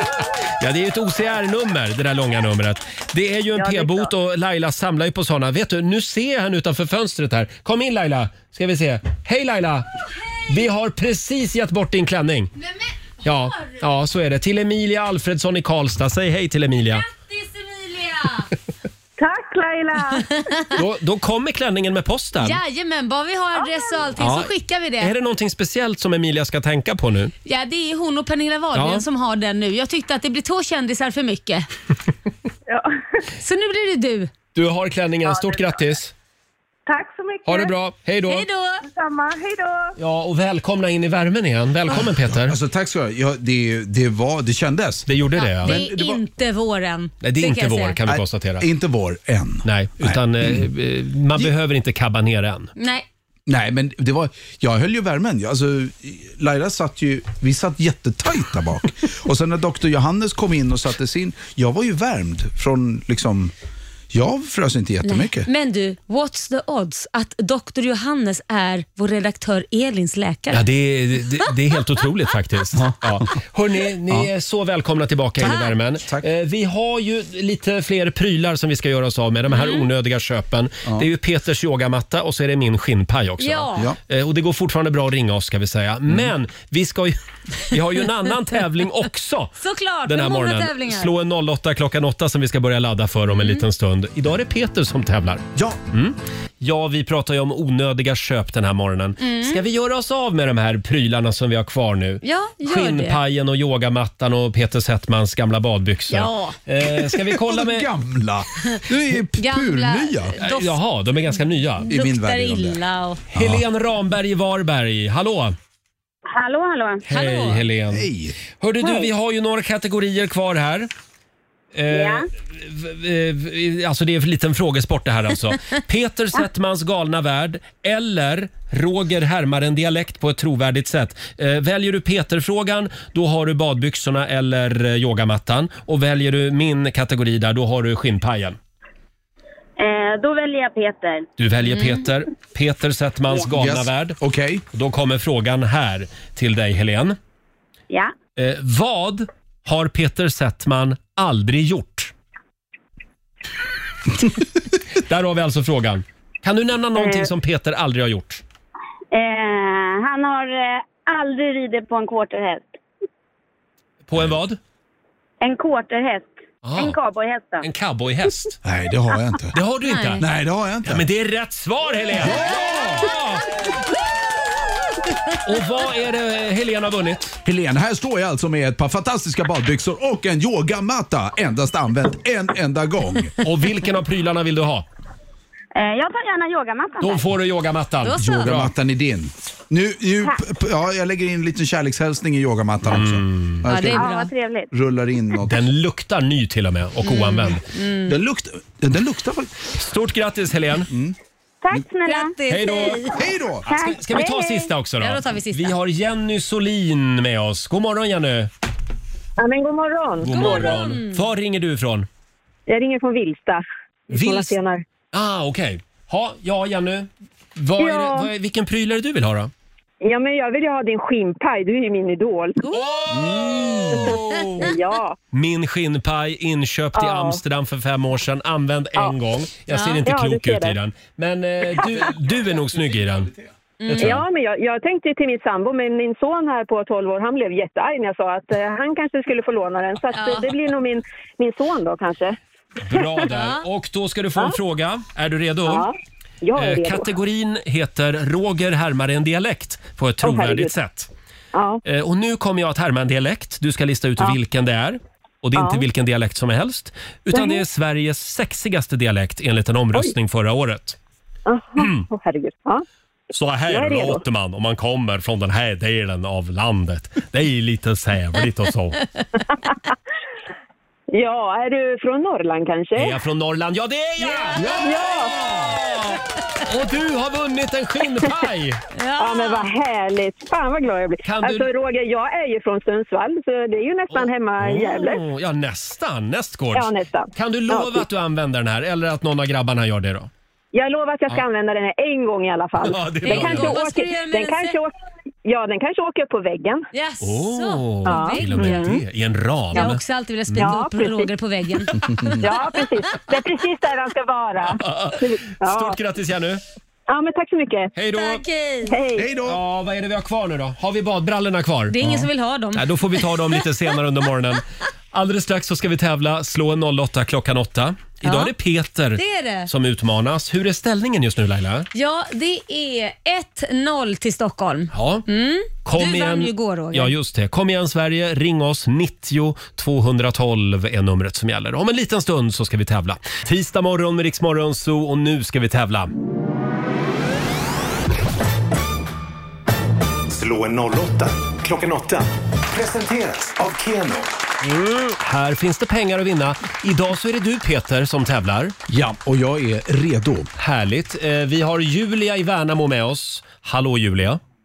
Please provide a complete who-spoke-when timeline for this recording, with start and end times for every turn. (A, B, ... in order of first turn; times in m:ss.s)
0:00.6-0:09.9 A
0:03.5-0:04.1 B
0:10.5-0:12.5 A
0:13.2-0:17.0 A
0:13.5-0:13.8 C
0:16.9-0:18.5 C
0:19.2-0:20.3 B
0:20.7-0:22.6 A
0:22.4-0:25.1 C
0:23.6-0:23.8 B
0:24.2-0:27.3 A
0:27.4-0:31.7 C
0:28.7-0:29.0 A
0:32.7-0:33.0 B
0:33.4-0:34.3 C
0:34.5-0:36.1 A
0:35.2-0:35.8 B
0:36.9-0:37.7 B
0:37.4-0:38.5 A
0:38.3-0:38.8 C
0:38.8-0:39.9 B
0:40.0-0:42.6 A
0:42.1-0:45.1 D
0:45.1-0:45.8 A
0:45.4-0:48.0 C
0:45.6-0:46.2 D
0:47.2-0:48.6 A
0:48.0-0:50.7 D
0:49.6-0:52.7 A
0:52.8-0:53.0 C
0:53.5-1:03.5 D
1:04.1-1:05.5 D
1:05.0-1:10.6 C
1:10.5-1:29.5 A
1:12.7-1:13.3 D
1:15.4-1:15.8 C
1:19.5-1:19.8 C
1:23.4-1:23.9 C
1:29.6-1:31.1 C
1:30.0-1:47.8 A
1:33.3-1:33.6 C
1:39.2-1:39.6 C
1:42.2-1:43.2 C
1:46.1-1:46.6 C
1:47.0-1:50.4 D
1:49.3-1:50.7 C
1:50.4-1:51.9 A
1:51.9-1:53.2 C
1:51.9-1:53.6 D
1:53.3-1:55.6 A
1:56.3-1:57.0 E
1:57.0-2:00.9 A
1:57.1-1:57.6 C
1:57.9-1:58.4 D
2:01.7-2:18.6 A
2:01.9-2:02.3 E
2:19.8-2:21.3 E
2:21.4-2:24.2 A
2:23.4-2:24.6 D
2:24.7-2:27.2 A
2:28.4-2:32.1 A
2:34.9-2:38.4 A
2:37.0-2:37.3 E
2:39.1-2:42.7 E
2:44.1-2:44.6 A
2:45.4-2:47.6 E
2:46.6-2:47.0 A
2:47.6-2:48.5 A
2:48.6-2:49.5 D
2:49.5-2:50.2 A
2:49.8-2:50.2 C
2:50.2-2:51.0 D
2:50.8-2:53.6 A
2:52.2-2:53.2 D
2:55.4-2:57.4 A
2:57.4-3:03.4 D
3:03.4-3:04.8 A
3:05.7-3:07.2 E
3:07.0-3:08.7 A
3:08.0-3:08.5 C
3:08.2-3:14.1 D
3:12.8-3:13.6 A
3:13.6-3:14.3 C
3:14.0-3:14.7 E
3:14.7-3:15.7 D
3:15.5-3:17.6 A
3:17.0-3:18.2 C
3:18.0-3:19.6 D
3:19.7-3:20.9 A
3:20.9-3:21.1 D
3:21.6-3:22.4 E
3:22.0-3:23.2 C
3:22.5-3:23.1 A
3:23.1-3:23.7 D
3:23.7-3:28.5 A
3:23.7-3:24.4 E
3:25.0-3:25.7 C
3:29.4-3:30.8 F
3:30.2-3:32.1 A
3:30.3-3:31.2 C
3:32.7-3:34.8 F
3:34.1-3:34.6 A
3:35.1-3:39.5 A
3:37.8-3:38.3 F
3:40.0-3:42.6 F
3:42.6-3:44.8 A
3:43.1-3:44.0 D
3:44.0-3:45.2 F
3:45.3-3:53.3 A
3:46.9-3:47.4 F
3:49.7-3:50.0 C
3:50.0-3:50.8 F
3:52.4-3:53.1 D
3:53.8-3:54.2 C
3:53.9-3:54.2 A
3:54.0-4:02.4 F
4:00.1-4:00.5 C
4:02.8-4:05.9 A
4:03.3-4:03.6 C
4:05.6-4:07.1 F
4:06.5-4:11.1 A
4:10.2-4:10.7 F
4:11.5-4:11.8 F
4:11.8-4:21.0 A
4:15.5-4:15.8 F
4:17.3-4:17.6 F
4:21.4-4:22.8 F
4:21.8-4:22.1 A
4:23.3-4:29.0 A
4:23.7-4:24.2 F
4:31.1-4:33.2 F
4:33.0-4:38.8 A
4:34.7-4:35.3 F
4:38.9-4:39.7 C
4:39.2-4:45.2 F
4:41.2-4:41.7 A
4:44.1-4:50.3 A
4:46.7-4:48.0 F
4:50.7-4:54.9 F
4:52.8-4:53.9 A
4:53.2-4:54.8 C
4:55.4-4:56.8 F
4:56.9-4:58.9 C
4:57.2-5:00.8 A
4:58.0-4:59.0 F
4:59.7-5:02.3 C
5:00.6-5:01.3 F
5:02.4-5:06.0 F
5:04.6-5:06.6 A
5:07.1-5:07.9 F
5:07.9-5:08.4 A
5:08.1-5:08.9 C
5:08.9-5:09.3 F
5:09.2-5:09.6 D
5:09.4-5:12.0 A
5:11.9-5:13.6 C
5:12.7-5:21.9 A
5:18.2-5:18.5 C
5:19.1-5:19.7 C
5:21.9-5:27.1 C
5:24.9-5:25.2 A
5:25.8-5:36.1 A
5:40.3-5:44.3 G
5:44.6-5:48.8 A
5:48.9-5:50.5 D
5:50.6-5:54.4 A